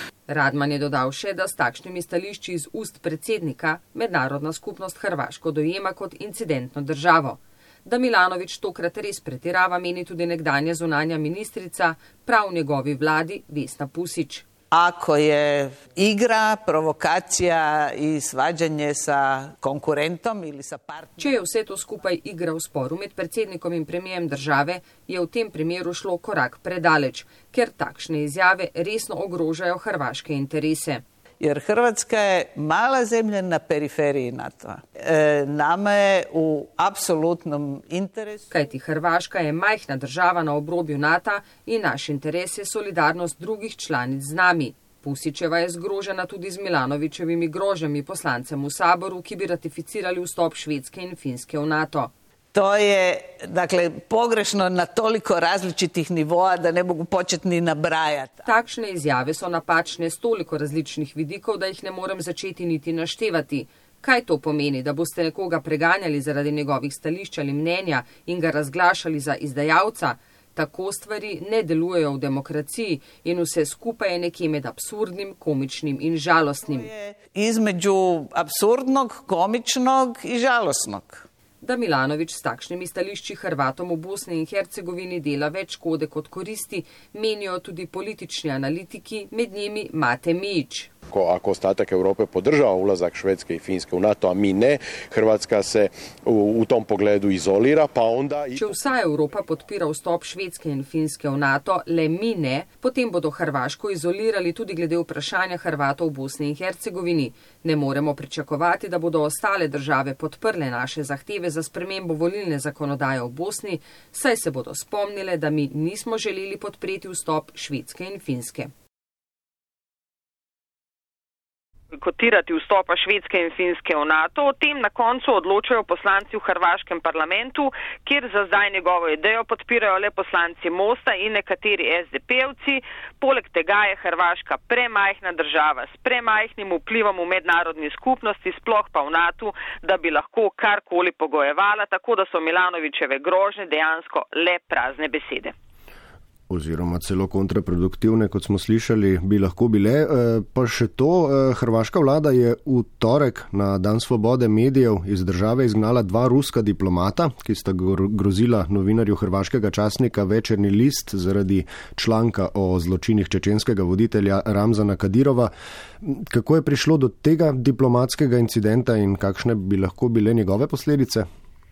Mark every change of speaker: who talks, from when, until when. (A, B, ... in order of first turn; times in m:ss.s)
0:00.3-0:14.4 A
0:14.7-0:21.4 B
0:21.2-0:31.0 A
0:31.4-0:38.4 B
0:38.5-0:52.1 A
0:52.5-0:58.4 B
0:58.4-1:16.8 A
1:16.7-1:21.2 B
1:21.6-1:30.9 A
1:31.1-1:38.8 C
1:38.6-1:58.7 A
2:01.9-2:25.5 D
2:26.5-2:51.2 E